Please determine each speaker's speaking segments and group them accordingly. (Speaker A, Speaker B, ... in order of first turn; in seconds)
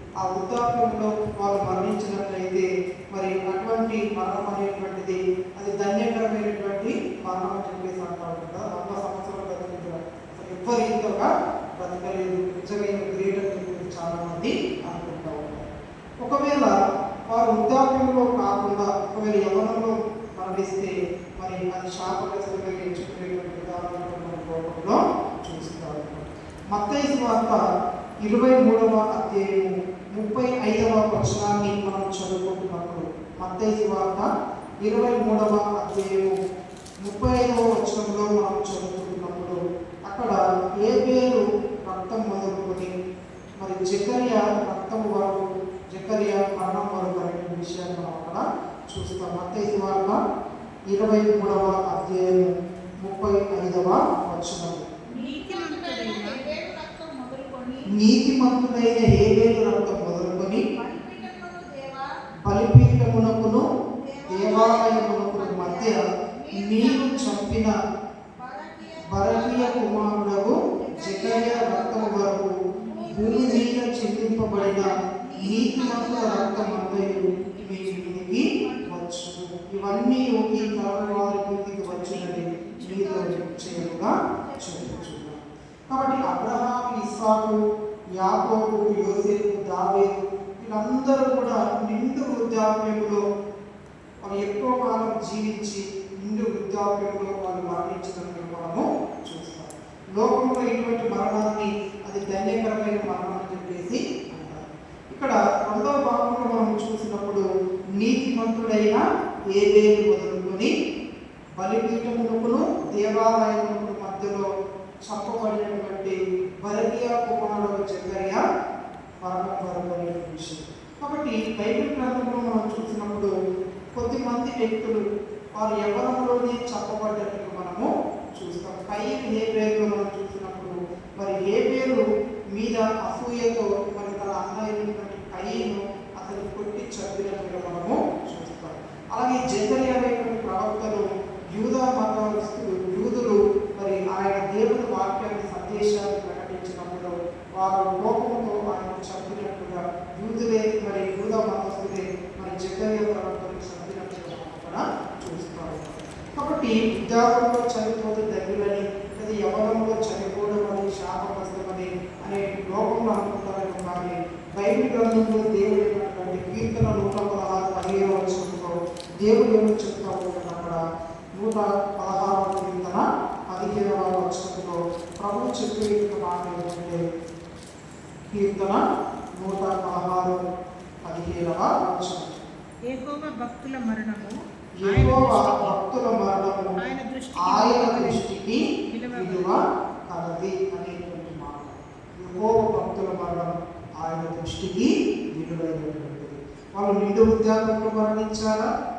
Speaker A: 0.2-15.7, 16.2-27.6, 28.2-34.3, 34.8-36.4, 37.0-42.9, 43.6-50.2, 50.9-52.5, 53.0-54.8, 57.9-60.6, 62.5-63.6, 64.3-66.0, 66.5-67.7, 69.1-72.5, 73.1-87.6, 88.2-93.2, 94.2-107.4, 108.0-110.7, 111.6-114.5, 115.0-118.4, 119.2-123.3, 124.0-125.0, 125.5-132.0, 132.5-170.8, 171.3-177.0, 178.3-178.8, 179.4-180.4, 181.0-182.4, 184.8-186.8, 187.4-188.6, 189.1-198.7
Speaker B: 55.1-57.9, 60.7-62.1, 63.9-67.5, 68.4-72.3, 72.9-79.0, 82.8-85.2
Speaker C: 55.1-56.5, 72.7-73.7, 75.5-76.5, 79.8-83.7, 182.9-184.3, 184.8-185.7, 186.8-188.2, 188.9-189.6